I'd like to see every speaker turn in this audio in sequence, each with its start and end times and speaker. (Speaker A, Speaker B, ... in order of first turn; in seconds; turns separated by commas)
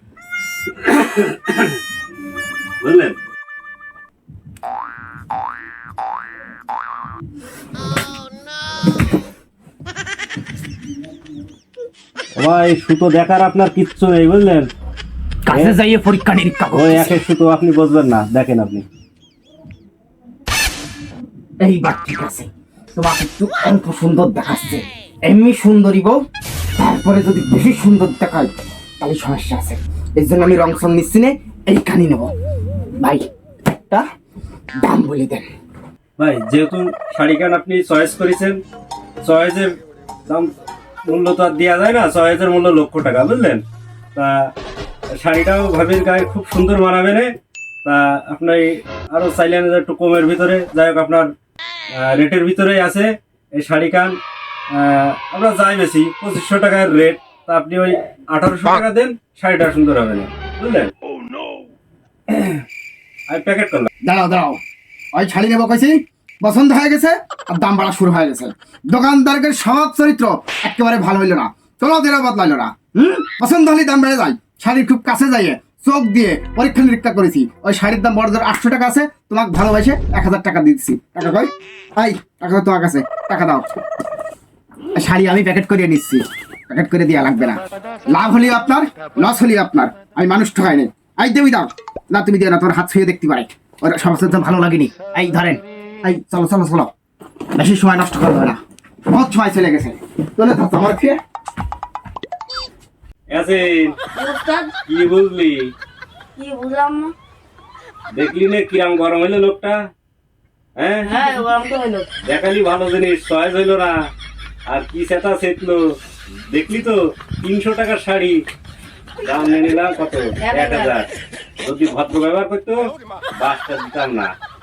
Speaker A: 0.7-1.8, Speaker A: 2.8-3.2, Speaker A: 12.4-14.7, Speaker B: 15.4-17.2, Speaker A: 15.5-15.8, Speaker A: 16.7-18.9, Speaker B: 21.6-26.2, Speaker B: 26.8-32.3, Speaker B: 33.0-33.2, Speaker B: 34.8-35.5, Speaker A: 36.2-38.6, Speaker A: 39.2-39.7, Speaker A: 41.1-43.6, Speaker A: 44.1-44.5, Speaker A: 45.2-47.3, Speaker A: 47.9-51.3, Speaker A: 52.0-54.2, Speaker A: 54.7-60.9, Speaker A: 62.3-62.6, Speaker A: 63.3-63.9, Speaker B: 64.0-64.6, Speaker B: 65.1-83.7, Speaker B: 85.0-96.9, Speaker B: 97.5-101.2, Speaker A: 103.3-104.0, Speaker C: 104.2-104.7, Speaker A: 104.9-105.7, Speaker C: 106.4-107.1, Speaker A: 108.1-109.8, Speaker A: 110.8-111.3, Speaker C: 111.0-112.1, Speaker A: 112.3-114.0, Speaker A: 114.7-115.8, Speaker A: 116.5-118.4, Speaker A: 119.2-121.1, Speaker C: 120.4-120.9, Speaker A: 121.6-122.8, Speaker A: 123.4-124.3